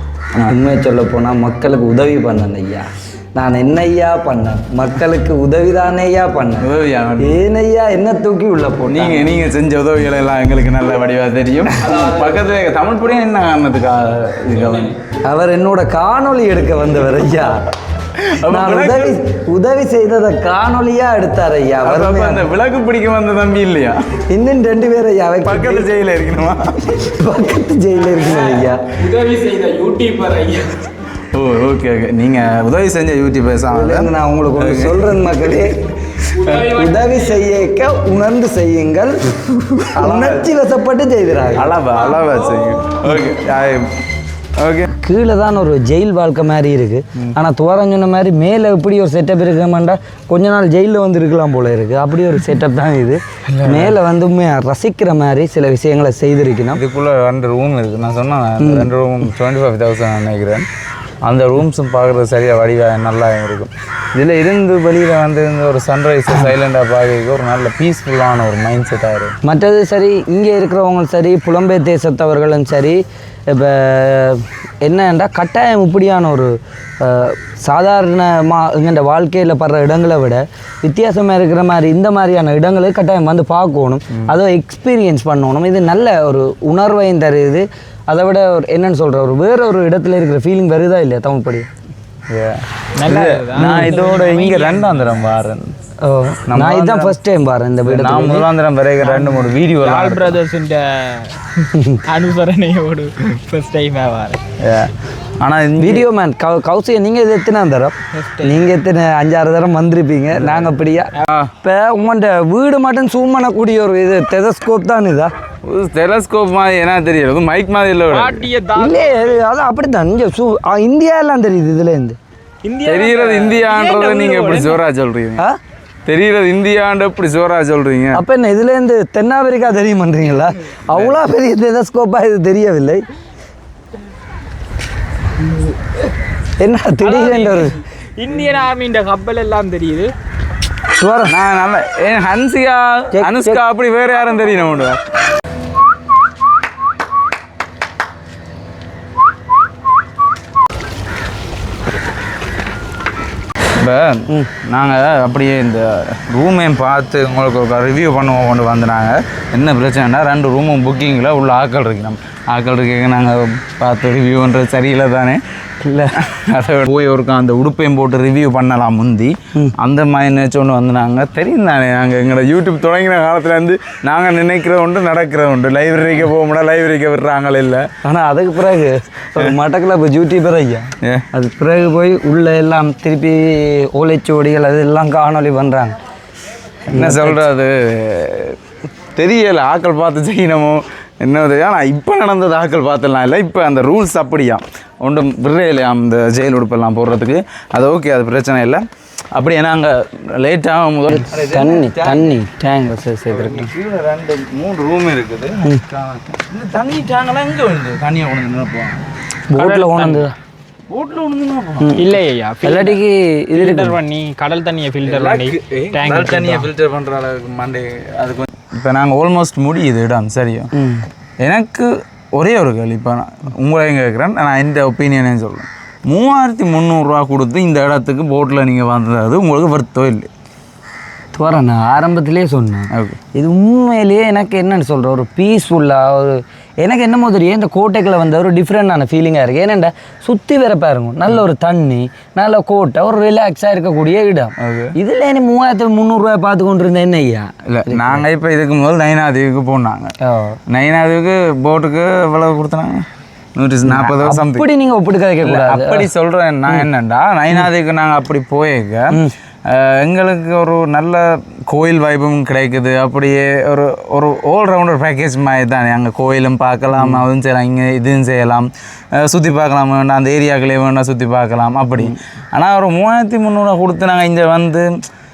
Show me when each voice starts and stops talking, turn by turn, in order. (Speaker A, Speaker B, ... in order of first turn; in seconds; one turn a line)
Speaker A: 0.5-9.3
Speaker B: 6.6-7.4
Speaker B: 8.9-14.9
Speaker A: 15.2-17.6
Speaker B: 18.1-19.2
Speaker A: 18.4-22.5
Speaker B: 21.8-24.0
Speaker A: 24.3-25.9
Speaker B: 25.4-26.9
Speaker A: 26.8-28.8
Speaker C: 28.9-30.9
Speaker B: 31.3-35.7
Speaker A: 33.7-35.8
Speaker B: 36.3-36.7
Speaker C: 36.3-37.4
Speaker A: 36.5-41.7
Speaker B: 39.9-40.5
Speaker B: 41.5-43.9
Speaker C: 42.0-42.7
Speaker B: 44.6-44.9
Speaker A: 45.0-56.8
Speaker B: 53.5-54.0
Speaker B: 56.7-60.7
Speaker A: 58.6-58.9
Speaker B: 61.2-69.3
Speaker A: 69.4-91.7
Speaker B: 92.3-95.7
Speaker C: 92.9-95.2
Speaker A: 93.6-93.9
Speaker A: 96.0-98.5
Speaker B: 96.5-97.2
Speaker B: 97.8-100.4
Speaker C: 99.0-104.4
Speaker A: 101.7-102.0
Speaker B: 104.6-106.0
Speaker A: 105.8-111.1
Speaker C: 108.2-108.6
Speaker B: 110.3-111.5
Speaker A: 111.6-115.3
Speaker B: 115.6-118.5
Speaker C: 118.1-119.4
Speaker A: 118.8-122.2
Speaker C: 122.6-124.8
Speaker B: 122.8-125.4
Speaker B: 126.0-128.2
Speaker A: 128.1-133.0
Speaker B: 130.9-131.2
Speaker A: 136.6-137.8
Speaker C: 137.0-140.1
Speaker A: 140.9-141.4
Speaker B: 141.2-145.0
Speaker A: 143.1-143.6
Speaker B: 153.8-165.4
Speaker A: 165.8-166.2
Speaker B: 166.1-177.9
Speaker A: 178.0-185.9
Speaker B: 181.0-181.3
Speaker A: 186.9-187.4
Speaker B: 186.9-188.6
Speaker B: 189.2-202.3
Speaker A: 201.1-203.7
Speaker B: 203.3-209.0
Speaker A: 209.5-210.3
Speaker B: 209.6-210.2
Speaker B: 210.9-211.9
Speaker A: 211.8-212.1
Speaker C: 211.9-213.0
Speaker A: 212.6-214.0
Speaker C: 213.5-216.7
Speaker B: 215.0-220.7
Speaker A: 220.7-221.1
Speaker B: 221.4-230.3
Speaker A: 231.3-248.2
Speaker B: 232.9-233.2
Speaker B: 244.6-244.9
Speaker B: 247.7-250.1
Speaker A: 250.2-250.6
Speaker B: 250.7-254.7
Speaker A: 253.8-256.1
Speaker B: 255.4-274.9
Speaker A: 266.9-267.2